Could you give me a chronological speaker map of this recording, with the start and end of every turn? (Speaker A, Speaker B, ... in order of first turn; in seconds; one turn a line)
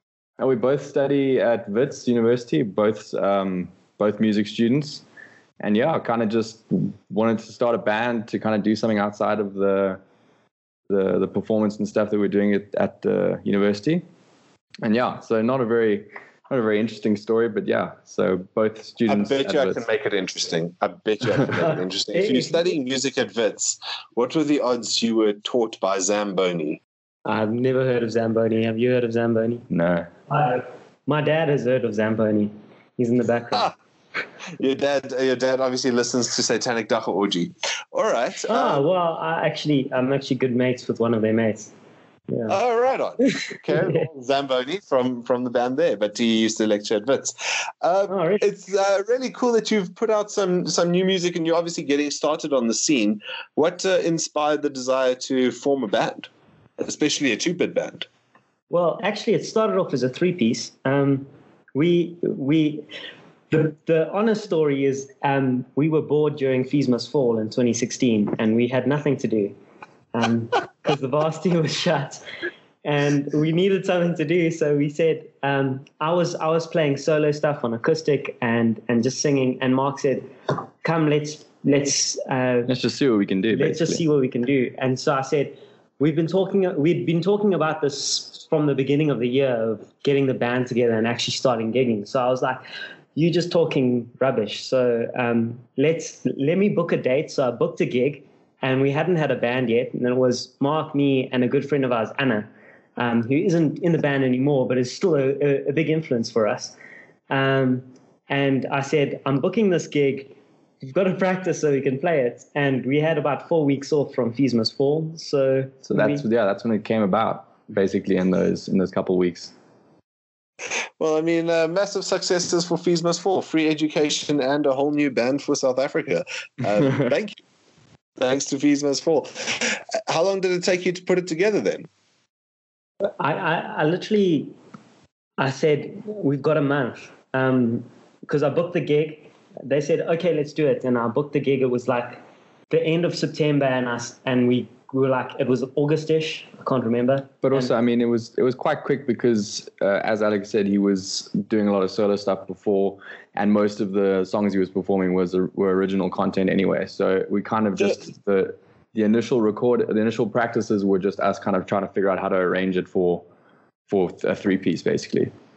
Speaker A: 0.4-5.0
Speaker A: 5.6-10.0
Speaker A: 10.9-14.0
Speaker A: 14.8-19.8
Speaker B: 19.1-26.8
Speaker C: 21.6-22.5
Speaker C: 27.2-29.6
Speaker A: 29.7-30.1
Speaker C: 30.3-33.7
Speaker B: 34.6-38.8
Speaker C: 38.5-41.7
Speaker C: 42.3-42.5
Speaker B: 42.5-56.3
Speaker C: 43.2-44.0
Speaker C: 48.1-48.4
Speaker B: 56.8-58.1
Speaker C: 58.7-62.9
Speaker C: 63.5-69.5
Speaker C: 70.1-72.2
Speaker C: 72.8-80.3
Speaker C: 80.8-82.7
Speaker A: 82.7-84.0
Speaker C: 83.5-92.6
Speaker C: 93.1-106.8
Speaker C: 107.3-116.2
Speaker A: 115.9-119.5
Speaker B: 121.0-127.3
Speaker B: 128.2-131.9
Speaker C: 133.2-134.5
Speaker C: 135.4-147.7
Speaker A: 147.4-163.2
Speaker A: 163.9-165.3